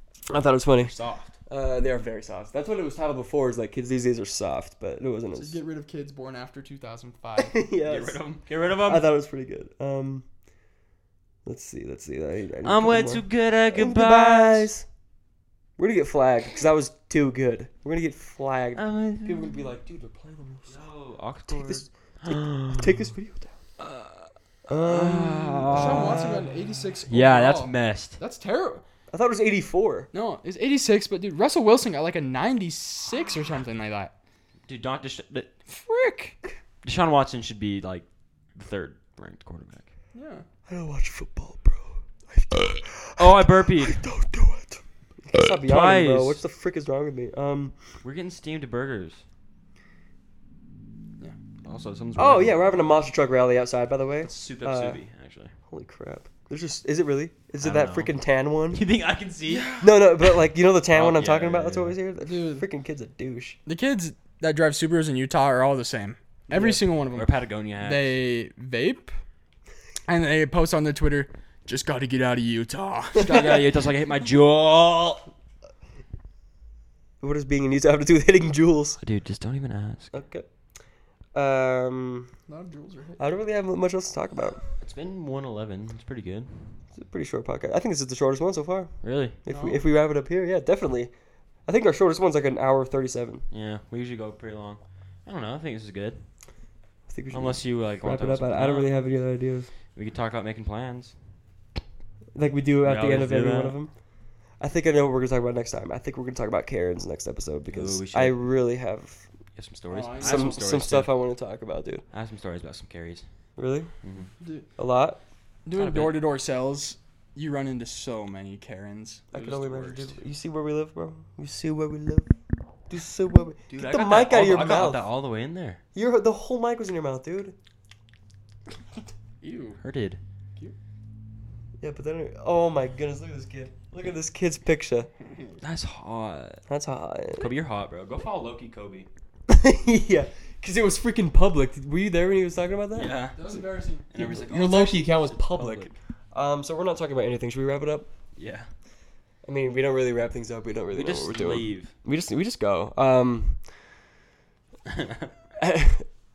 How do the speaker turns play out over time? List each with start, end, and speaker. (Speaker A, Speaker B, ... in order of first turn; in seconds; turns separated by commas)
Speaker A: 0.3-0.9, Speaker B: 0.8-1.3, Speaker A: 1.5-5.5, Speaker B: 5.3-7.6, Speaker A: 7.4-10.2, Speaker C: 7.8-9.1, Speaker A: 11.4-14.8, Speaker C: 12.6-14.7, Speaker A: 15.8-20.8, Speaker C: 18.7-19.6, Speaker C: 20.7-23.0, Speaker A: 21.5-23.5, Speaker C: 23.8-26.2, Speaker A: 24.7-26.5, Speaker B: 25.7-28.8, Speaker C: 27.1-28.2, Speaker A: 29.1-30.1, Speaker B: 30.1-34.1, Speaker C: 34.7-35.5, Speaker B: 35.7-36.4, Speaker C: 36.8-38.0, Speaker C: 38.5-39.9, Speaker B: 40.1-40.5, Speaker A: 40.7-47.7, Speaker C: 43.2-44.0, Speaker C: 45.3-46.4, Speaker C: 48.0-49.2, Speaker C: 51.6-52.6, Speaker A: 52.1-55.0, Speaker C: 54.2-55.5, Speaker A: 55.7-58.8, Speaker C: 57.6-58.1, Speaker C: 58.7-59.8, Speaker B: 59.5-59.9, Speaker A: 59.8-63.6, Speaker C: 60.9-62.0, Speaker B: 62.2-62.6, Speaker B: 63.6-69.2, Speaker A: 66.5-66.8, Speaker C: 67.1-68.2, Speaker B: 70.0-73.7, Speaker C: 73.2-75.3, Speaker A: 77.2-79.0, Speaker C: 79.0-80.2, Speaker A: 80.1-80.5, Speaker A: 81.3-82.3, Speaker B: 82.5-83.2, Speaker A: 83.2-84.7, Speaker C: 84.8-86.8, Speaker A: 86.9-91.1, Speaker C: 89.0-89.4, Speaker B: 89.5-89.8, Speaker A: 91.7-93.4, Speaker C: 93.5-96.2, Speaker A: 97.1-99.7, Speaker C: 97.3-99.0, Speaker C: 99.9-101.1, Speaker A: 102.3-103.9, Speaker C: 102.8-103.8, Speaker A: 104.6-109.2, Speaker C: 107.7-108.4, Speaker C: 109.5-111.1, Speaker B: 109.9-110.7, Speaker A: 110.2-112.0, Speaker C: 112.1-113.2, Speaker A: 113.6-113.9, Speaker C: 114.0-114.3, Speaker B: 114.4-114.7, Speaker A: 114.8-115.2, Speaker B: 115.6-119.3, Speaker C: 115.7-116.2, Speaker A: 119.3-122.3, Speaker C: 119.3-120.2, Speaker A: 122.9-125.0, Speaker C: 123.7-125.8, Speaker A: 125.9-127.5, Speaker B: 129.4-129.8, Speaker C: 129.8-130.2, Speaker A: 131.8-135.1, Speaker C: 135.6-136.6, Speaker A: 136.7-137.5, Speaker C: 137.4-139.1, Speaker A: 139.5-143.1, Speaker C: 142.9-145.9, Speaker B: 143.3-144.1, Speaker A: 144.2-148.1, Speaker C: 148.3-148.7, Speaker A: 149.4-153.6, Speaker C: 150.9-151.9, Speaker A: 155.6-156.1